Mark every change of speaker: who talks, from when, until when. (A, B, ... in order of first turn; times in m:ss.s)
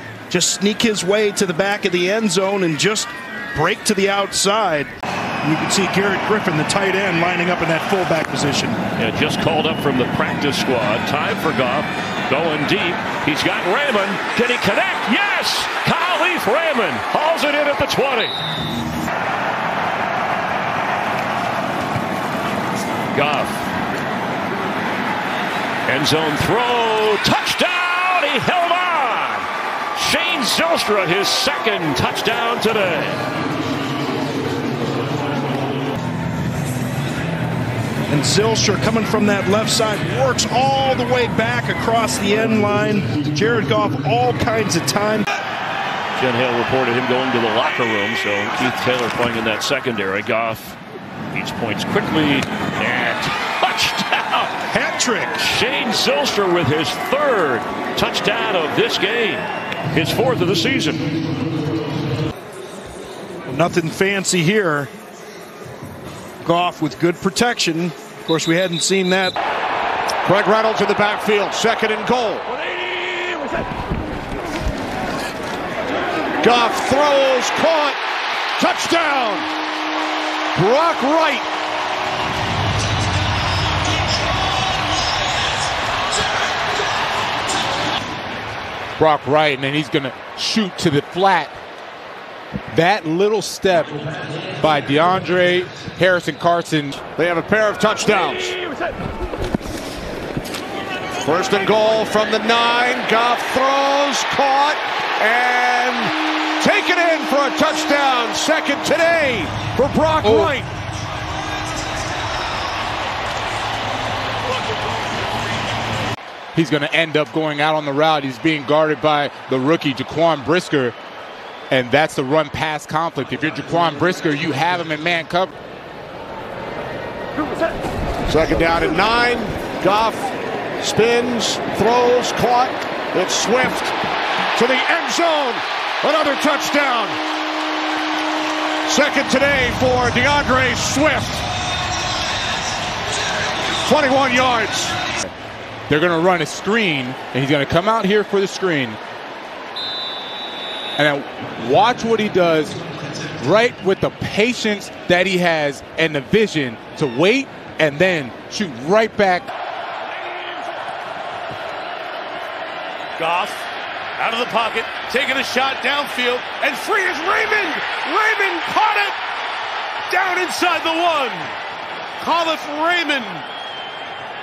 0:00.3-0:08.8 A
0:09.0-0:18.4 B
0:23.1-0:23.7 B
0:25.9-0:33.2 B
0:38.1-0:45.2 A
0:46.2-0:50.8 B
0:51.3-0:54.5 B
0:54.7-0:55.4 A
0:55.4-1:01.2 B
1:03.5-1:04.9 A
1:06.4-1:09.4 A
1:10.2-1:12.4 C
1:16.4-1:18.0 C
1:18.6-1:19.5 C
1:20.6-1:21.5 C
1:29.0-1:31.6 D
1:32.7-1:33.9 D
1:34.6-1:37.0 D
1:37.2-1:38.6 C
1:41.2-1:50.7 C
1:50.2-1:50.5 D
1:56.6-2:01.0 D
2:01.7-2:05.5 D
2:08.3-2:14.0 C
2:14.6-2:17.2 C
2:18.9-2:21.5 C
2:23.8-2:25.0 C
2:25.9-2:29.0 D
2:31.0-2:32.8 D
2:33.4-2:39.5 D
2:43.2-2:43.6 E
2:44.2-2:49.1 E
2:50.1-2:51.5 E
2:52.2-2:53.4 E